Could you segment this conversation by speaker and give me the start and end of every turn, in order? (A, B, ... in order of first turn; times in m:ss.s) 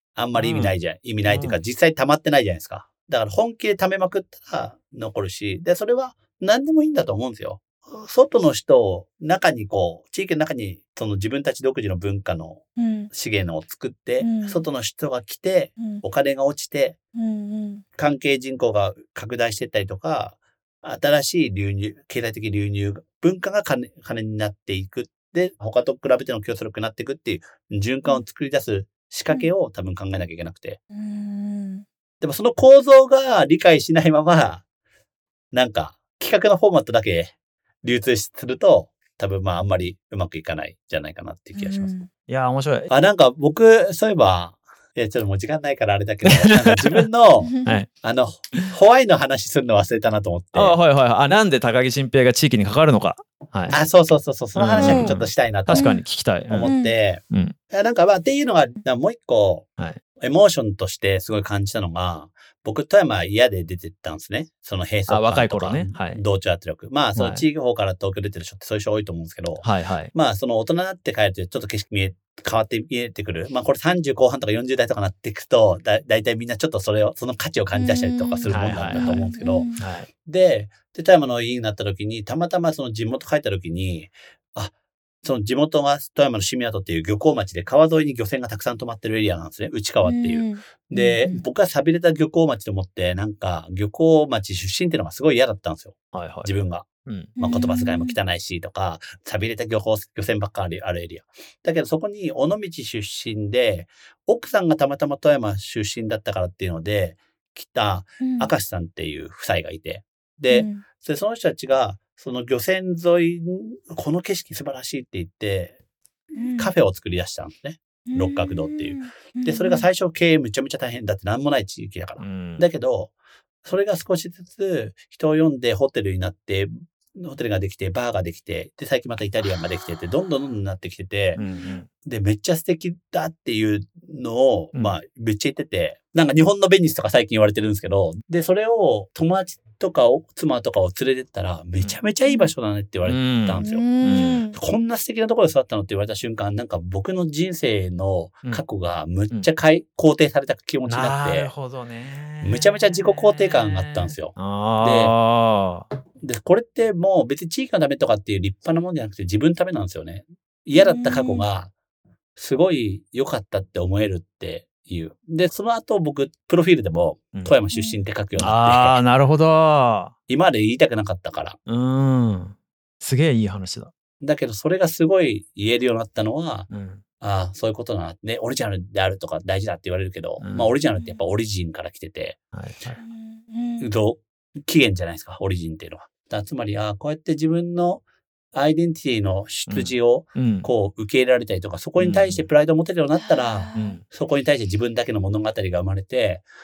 0:00.2-0:17.0 A
0:00.4-0:00.7 B
0:01.2-0:01.6 B
0:12.8-0:13.1 C
0:14.2-0:14.7 C
0:17.2-0:17.8 C
0:18.0-0:30.8 A
0:30.9-0:31.8 C
0:32.2-0:34.6 A
0:35.5-0:41.9 A
0:41.5-0:42.1 C
0:42.3-0:42.9 B
0:42.9-0:50.7 A
0:46.3-0:47.0 B
0:47.4-0:47.8 C
0:50.5-0:53.8 B
0:53.7-0:55.9 A
0:54.6-0:56.7 B
0:54.7-0:55.2 C
0:55.7-0:56.0 C
0:56.5-0:59.7 A
0:56.6-0:56.9 C
0:57.3-0:57.5 B
1:00.2-1:19.7 A
1:05.1-1:06.2 B
1:07.2-1:07.4 B
1:09.6-1:10.1 B
1:17.7-1:19.8 C
1:18.5-1:20.1 B
1:20.2-1:55.8 A
1:30.0-1:31.4 C
1:36.1-1:37.3 B
1:37.4-1:38.2 C
1:48.2-1:48.5 C
1:50.5-1:50.8 C
1:56.3-2:03.1 A
1:56.4-1:56.7 C
1:58.1-1:59.8 C
2:02.2-2:02.7 B
2:03.6-2:11.4 A
2:11.4-2:11.9 B
2:12.0-2:31.5 A
2:22.2-2:22.5 C
2:23.0-2:24.4 B
2:23.6-2:24.6 C
2:30.9-2:35.9 B
2:32.4-2:35.1 A
2:36.2-2:41.7 A
2:40.7-2:41.4 C
2:42.4-2:49.0 A
2:47.7-2:48.0 C
2:48.4-2:50.1 B
2:50.3-2:51.6 A
2:51.7-2:53.9 B
2:54.2-2:56.7 A
2:56.7-2:57.0 B
2:57.2-3:02.4 A
3:00.4-3:00.7 B
3:00.9-3:01.2 C
3:02.5-3:03.0 B
3:03.0-3:03.9 C
3:03.8-3:16.4 A
3:09.7-3:10.7 B
3:12.0-3:12.5 B
3:13.1-3:14.0 C
3:13.7-3:14.0 B